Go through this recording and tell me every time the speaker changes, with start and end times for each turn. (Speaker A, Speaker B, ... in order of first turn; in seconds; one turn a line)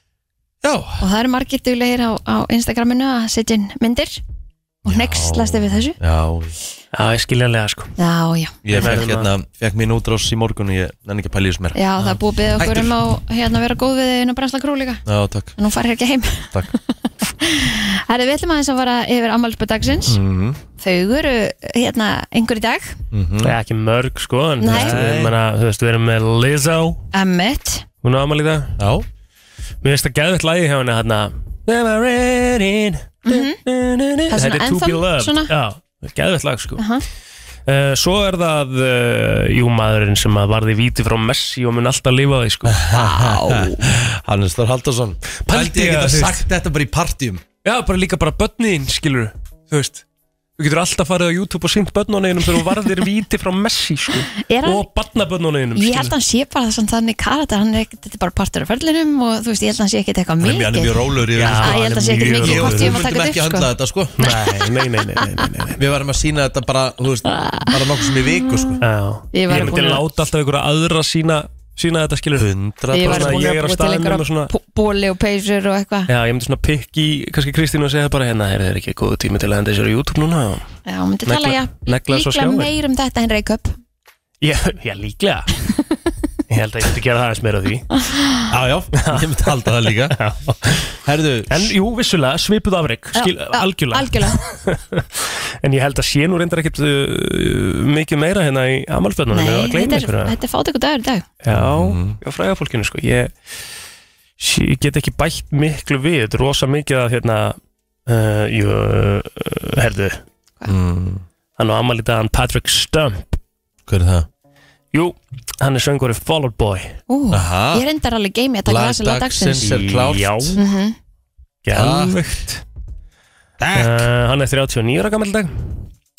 Speaker A: 0.6-1.0
Speaker B: 1.0-4.2
Speaker A: 4.8-6.5
Speaker B: 4.9-6.0
Speaker C: 6.9-7.9
Speaker B: 8.0-8.6
Speaker A: 8.6-11.8
Speaker C: 8.7-9.3
Speaker B: 11.8-15.0
Speaker A: 12.6-12.9
Speaker A: 15.1-15.6
Speaker B: 15.6-16.5
Speaker B: 17.4-20.2
Speaker A: 20.1-20.6
Speaker B: 20.8-23.0
Speaker A: 23.1-23.6
Speaker C: 23.4-27.0
Speaker B: 24.6-25.0
Speaker A: 24.7-25.4
Speaker B: 27.1-27.9
Speaker C: 28.0-28.8
Speaker A: 28.8-29.1
Speaker C: 29.8-36.8
Speaker B: 33.3-33.6
Speaker B: 34.3-35.5
Speaker B: 36.8-37.0
Speaker C: 37.7-42.9
Speaker A: 42.7-47.4
Speaker B: 42.9-43.7
Speaker C: 45.5-46.5
Speaker C: 47.6-50.0
Speaker C: 50.6-56.1
Speaker B: 54.4-54.8
Speaker B: 55.8-63.7
Speaker A: 60.4-64.2
Speaker C: 61.4-63.0
Speaker C: 64.2-65.8
Speaker A: 65.8-68.8
Speaker B: 67.3-67.7
Speaker C: 68.8-72.5
Speaker B: 69.3-70.0
Speaker A: 72.3-73.4
Speaker B: 72.9-76.1
Speaker C: 73.0-74.5
Speaker C: 76.1-80.7
Speaker B: 80.9-83.8
Speaker C: 81.3-82.7
Speaker C: 84.4-85.5
Speaker C: 86.5-87.9
Speaker B: 88.1-88.3
Speaker A: 88.5-90.2
Speaker C: 89.0-89.5
Speaker C: 90.1-90.9
Speaker A: 91.0-91.7
Speaker C: 91.5-100.3
Speaker B: 93.2-94.4
Speaker B: 99.3-101.3
Speaker C: 101.4-103.3
Speaker A: 101.5-102.2
Speaker C: 104.4-110.2
Speaker A: 110.7-111.2
Speaker C: 111.6-113.4
Speaker A: 113.9-114.3
Speaker C: 114.9-117.0
Speaker B: 117.1-119.7
Speaker A: 117.3-117.8
Speaker A: 118.7-120.6
Speaker C: 119.6-120.6
Speaker B: 120.6-121.0
Speaker C: 121.7-122.6
Speaker A: 121.7-122.2
Speaker A: 123.6-124.1
Speaker C: 123.7-125.8